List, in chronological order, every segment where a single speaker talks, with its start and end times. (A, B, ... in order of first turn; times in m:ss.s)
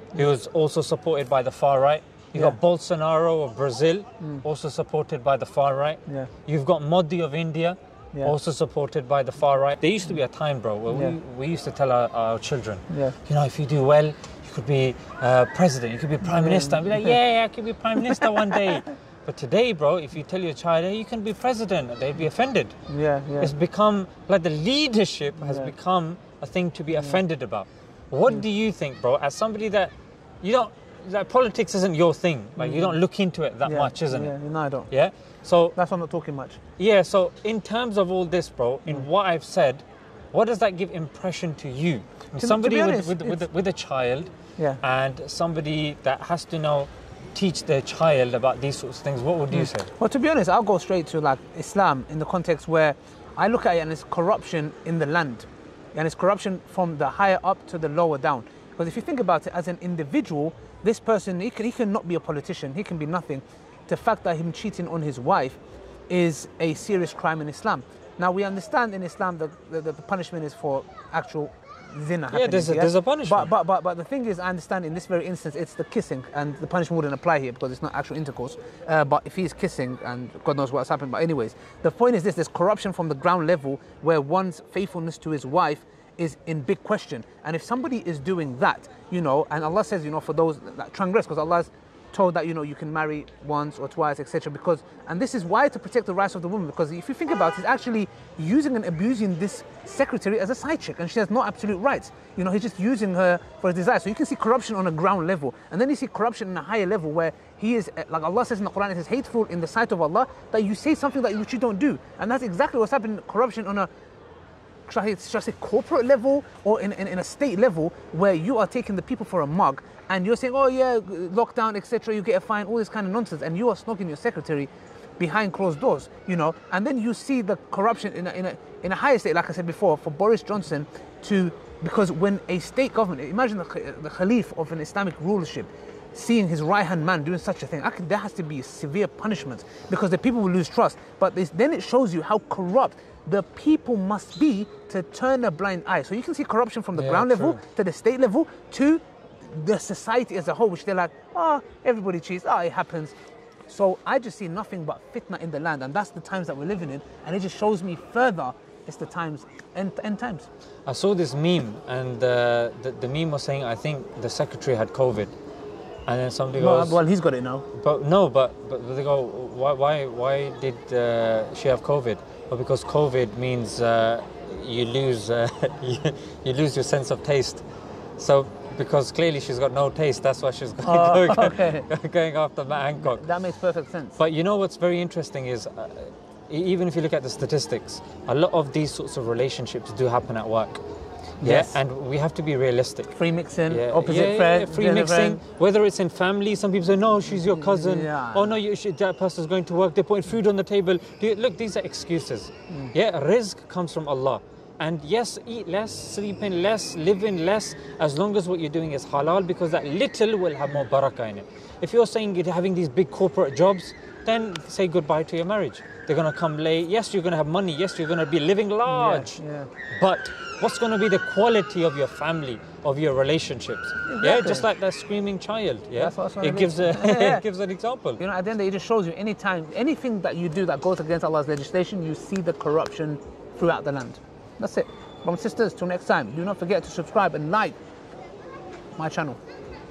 0:00.1-0:22.8 A
0:10.9-0:11.2 B
0:12.9-0:13.1 B
0:16.2-0:17.2 B
0:18.2-0:18.8 B
0:22.9-0:23.5 B
0:23.4-0:34.3 A
0:25.4-0:25.7 B
0:26.9-0:27.2 B
0:32.6-0:33.0 B
0:33.6-0:34.9 B
0:34.9-0:35.7 A
0:35.8-0:36.6 B
0:36.8-0:44.3 A
0:42.4-0:43.4 B
0:44.8-0:49.9 A
0:49.5-1:53.9 B
1:12.3-1:13.5 A
1:54.9-2:33.1 B
2:26.9-2:27.6 A
2:33.7-2:40.5 B
2:40.8-2:45.3 A
2:46.0-2:47.0 A
2:46.6-2:47.6 B
2:47.7-2:57.6 A
2:58.2-3:03.3 A
3:00.8-3:01.9 B
3:03.0-3:04.2 B
3:04.2-3:10.8 A
3:11.4-3:11.8 B
3:11.4-3:13.1 A
3:13.1-3:15.4 B
3:13.7-3:39.4 A
3:17.3-3:18.5 B
3:38.9-3:39.7 B
3:39.9-3:48.2 A
3:44.1-3:44.6 B
3:46.0-3:47.4 B
3:48.2-3:57.8 B
3:59.0-3:59.4 B